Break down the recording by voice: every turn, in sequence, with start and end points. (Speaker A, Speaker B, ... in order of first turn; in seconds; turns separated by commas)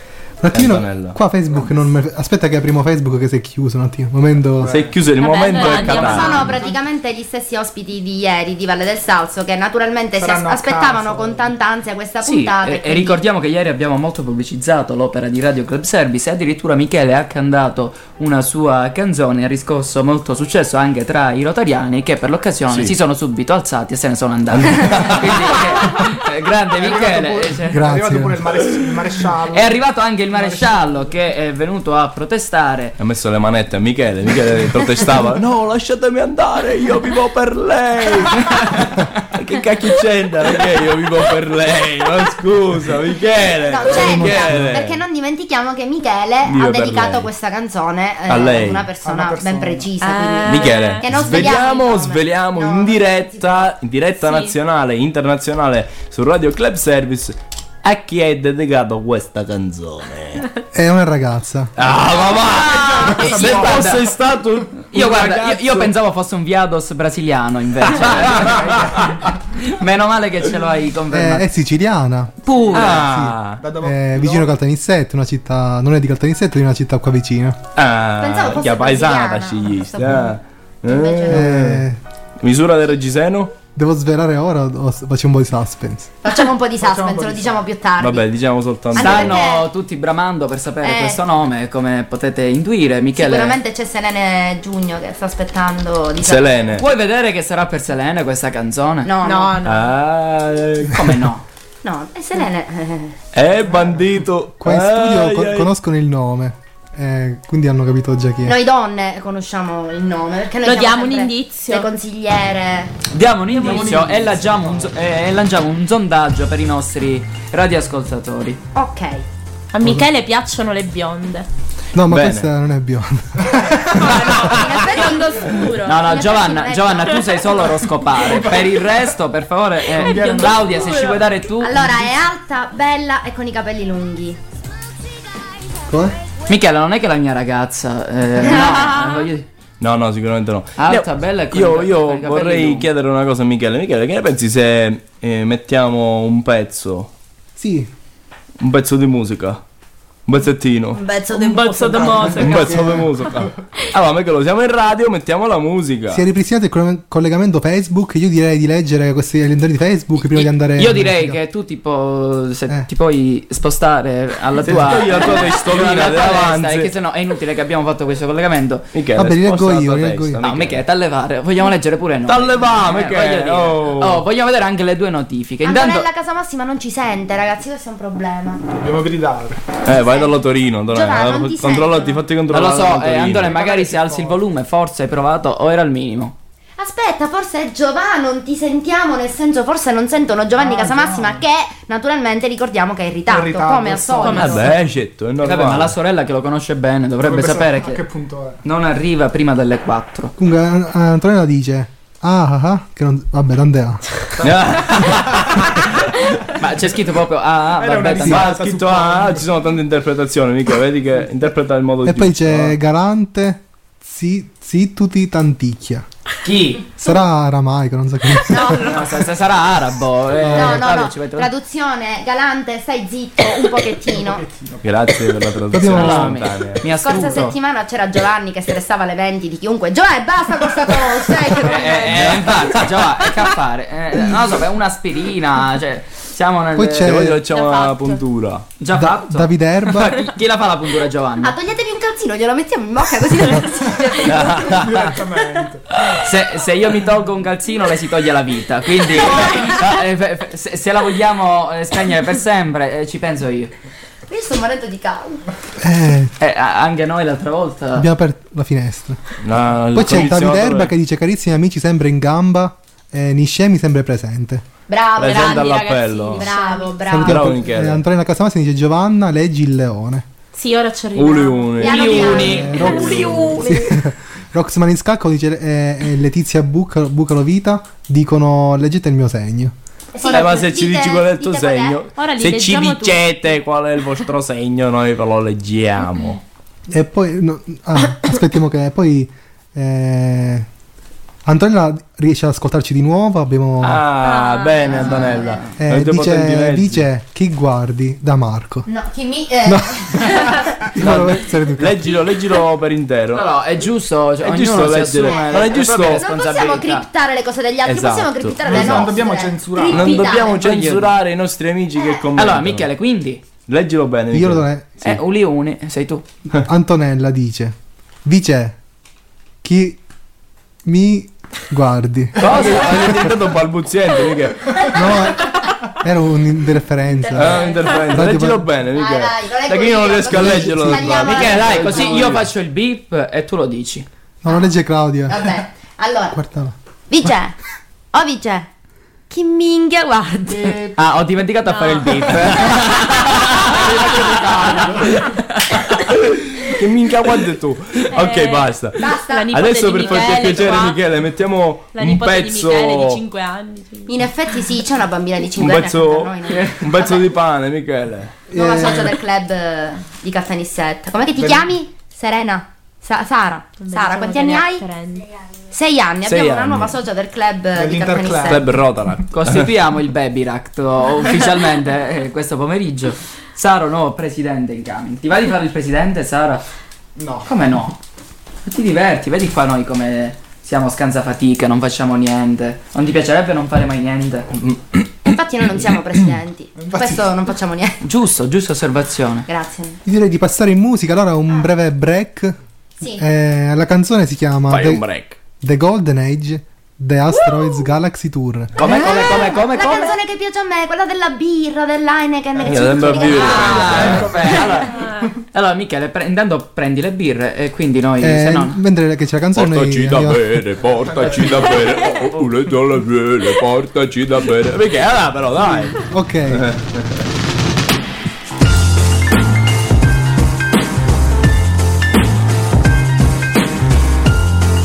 Speaker A: 0.4-4.8, Speaker B: 0.5-1.2, Speaker C: 4.6-5.0, Speaker B: 4.7-6.6, Speaker D: 5.2-6.7, Speaker E: 5.8-13.2, Speaker C: 10.2-11.5, Speaker F: 12.2-27.8, Speaker B: 24.5-25.6, Speaker C: 26.8-31.1, Speaker A: 27.7-28.4, Speaker F: 29.5-33.0, Speaker B: 33.0-45.0, Speaker E: 43.6-53.7, Speaker B: 46.5-47.3, Speaker B: 48.3-48.9, Speaker C: 49.0-49.9, Speaker D: 50.0-51.0, Speaker B: 50.5-60.4, Speaker D: 54.2-54.5, Speaker A: 60.7-61.7, Speaker B: 61.8-65.9, Speaker F: 62.5-64.0, Speaker C: 62.5-64.0, Speaker F: 64.9-71.4, Speaker B: 67.9-69.1, Speaker A: 71.1-72.4, Speaker F: 72.4-73.0, Speaker B: 72.7-73.6, Speaker A: 72.9-77.6, Speaker C: 73.6-74.5, Speaker B: 77.8-81.8, Speaker E: 78.2-81.5, Speaker A: 81.3-82.0, Speaker B: 82.4-83.5, Speaker A: 83.8-86.1, Speaker E: 86.2-88.3, Speaker C: 86.8-87.7, Speaker B: 88.0-89.4, Speaker E: 88.9-89.7, Speaker F: 89.0-93.6, Speaker E: 90.8-91.2, Speaker E: 93.2-96.8, Speaker B: 96.2-96.8, Speaker F: 96.8-99.1, Speaker E: 99.0-99.6, Speaker D: 99.2-99.9, Speaker B: 99.6-101.1, Speaker F: 100.9-101.4, Speaker E: 101.8-103.1, Speaker B: 103.3-105.7, Speaker C: 103.7-104.0, Speaker A: 104.6-108.6, Speaker E: 108.4-112.9, Speaker D: 110.6-111.9, Speaker F: 113.1-118.6, Speaker C: 113.5-115.0, Speaker E: 118.7-119.2, Speaker D: 119.7-121.5, Speaker A: 121.9-124.2, Speaker B: 122.0-122.5, Speaker D: 124.0-126.1, Speaker E: 124.4-127.4, Speaker F: 125.8-132.1, Speaker C: 128.2-128.9, Speaker C: 130.0-131.2, Speaker D: 130.0-131.2, Speaker E: 131.6-134.4, Speaker A: 135.9-136.2, Speaker F: 136.5-139.4, Speaker B: 139.8-147.1, Speaker F: 140.8-142.9, Speaker A: 147.6-147.9, Speaker B: 148.6-149.6, Speaker B: 150.3-151.0, Speaker E: 150.9-152.8, Speaker D: 151.3-152.8, Speaker B: 152.2-156.2, Speaker A: 152.5-153.1, Speaker A: 156.1-161.4, Speaker F: 160.2-168.9, Speaker B: 164.6-166.9, Speaker B: 168.9-170.8, Speaker A: 169.1-170.4, Speaker F: 170.4-176.1, Speaker B: 172.3-174.2, Speaker E: 175.6-178.6, Speaker C: 178.7-179.6, Speaker B: 179.8-183.6, Speaker E: 179.9-180.3, Speaker E: 180.9-182.2, Speaker F: 182.5-186.3, Speaker C: 183.4-184.4, Speaker E: 186.8-194.7, Speaker C: 190.6-191.4, Speaker C: 193.3-194.7, Speaker D: 194.2-194.6, Speaker B: 194.3-195.9, Speaker F: 195.4-198.0, Speaker C: 197.2-198.6, Speaker F: 198.6-200.3, Speaker A: 200.4-204.1, Speaker B: 204.4-206.0, Speaker F: 206.6-208.5, Speaker C: 207.8-209.4, Speaker B: 208.2-212.7, Speaker A: 212.0-216.1, Speaker F: 216.4-216.9, Speaker A: 217.0-219.0, Speaker E: 218.5-219.0, Speaker F: 218.7-221.5, Speaker E: 220.5-224.4, Speaker C: 224.1-224.8, Speaker B: 224.8-226.8, Speaker A: 225.7-226.4, Speaker F: 225.9-227.5, Speaker E: 226.9-232.3, Speaker F: 231.6-237.2, Speaker B: 232.1-232.6, Speaker A: 236.7-237.4, Speaker B: 237.0-238.7, Speaker D: 237.5-238.2, Speaker F: 238.8-241.5, Speaker A: 238.9-240.2, Speaker E: 241.4-244.6, Speaker B: 244.2-245.1, Speaker C: 244.4-245.8, Speaker F: 246.1-253.7, Speaker E: 254.3-255.4, Speaker A: 255.8-256.3, Speaker F: 256.4-258.1, Speaker A: 257.9-259.2, Speaker B: 259.4-260.9, Speaker A: 259.9-264.6, Speaker E: 264.9-265.8, Speaker B: 265.2-266.5, Speaker D: 265.2-267.1, Speaker E: 266.3-267.6, Speaker A: 267.1-270.3, Speaker B: 267.2-268.0, Speaker D: 270.5-272.9, Speaker B: 271.1-273.6, Speaker E: 271.8-273.2, Speaker F: 271.8-272.7, Speaker A: 272.5-279.7, Speaker E: 280.1-282.0, Speaker B: 280.3-286.4, Speaker D: 282.1-283.2, Speaker A: 286.9-290.7, Speaker A: 291.4-294.0, Speaker B: 293.8-297.0, Speaker D: 294.2-295.2, Speaker E: 294.8-295.6, Speaker A: 295.8-298.9, Speaker E: 298.9-300.7, Speaker A: 299.6-302.2, Speaker B: 301.0-303.5, Speaker F: 303.3-307.1, Speaker B: 304.4-306.2, Speaker E: 305.2-310.6, Speaker B: 307.8-309.1, Speaker C: 308.6-310.3, Speaker B: 309.9-312.9, Speaker F: 310.5-311.1, Speaker E: 311.9-312.2, Speaker F: 312.4-313.4, Speaker B: 313.7-314.6, Speaker A: 314.3-314.9, Speaker F: 315.0-316.2, Speaker A: 316.6-318.8, Speaker A: 319.6-320.0, Speaker A: 320.8-323.3, Speaker B: 322.4-324.9, Speaker F: 322.4-322.9, Speaker A: 324.9-328.7, Speaker B: 327.3-332.4, Speaker E: 328.9-332.4, Speaker A: 330.3-331.2, Speaker F: 331.2-334.1, Speaker A: 334.4-335.5, Speaker E: 335.3-336.4, Speaker A: 336.3-337.3, Speaker E: 337.1-337.5, Speaker E: 338.1-338.7, Speaker E: 339.3-340.8, Speaker C: 340.5-340.9, Speaker F: 340.9-344.9, Speaker D: 341.7-342.2, Speaker B: 343.2-345.2, Speaker C: 344.3-344.8, Speaker B: 345.8-353.2, Speaker D: 348.1-351.0, Speaker E: 349.0-350.5, Speaker D: 351.9-354.1, Speaker E: 354.1-357.3, Speaker B: 355.6-358.3, Speaker A: 358.5-359.1, Speaker E: 358.5-364.8, Speaker C: 361.4-361.7, Speaker D: 363.8-365.3, Speaker E: 365.7-368.6, Speaker B: 366.2-366.9, Speaker C: 367.7-368.8, Speaker B: 368.4-369.7, Speaker F: 369.3-376.6, Speaker C: 377.2-377.5, Speaker F: 377.4-378.0, Speaker F: 378.7-384.5, Speaker E: 385.2-388.0, Speaker C: 386.7-387.3, Speaker F: 388.0-389.5, Speaker E: 389.5-390.0, Speaker A: 390.0-392.5, Speaker A: 393.2-395.0, Speaker B: 394.7-395.4, Speaker A: 395.6-398.9, Speaker F: 398.8-400.1, Speaker E: 398.8-404.2, Speaker C: 402.6-405.2, Speaker B: 402.6-404.6, Speaker F: 403.2-404.9, Speaker D: 404.9-405.2, Speaker F: 405.5-408.8, Speaker A: 408.2-410.8, Speaker B: 409.5-417.2, Speaker C: 411.0-411.9, Speaker A: 415.7-416.6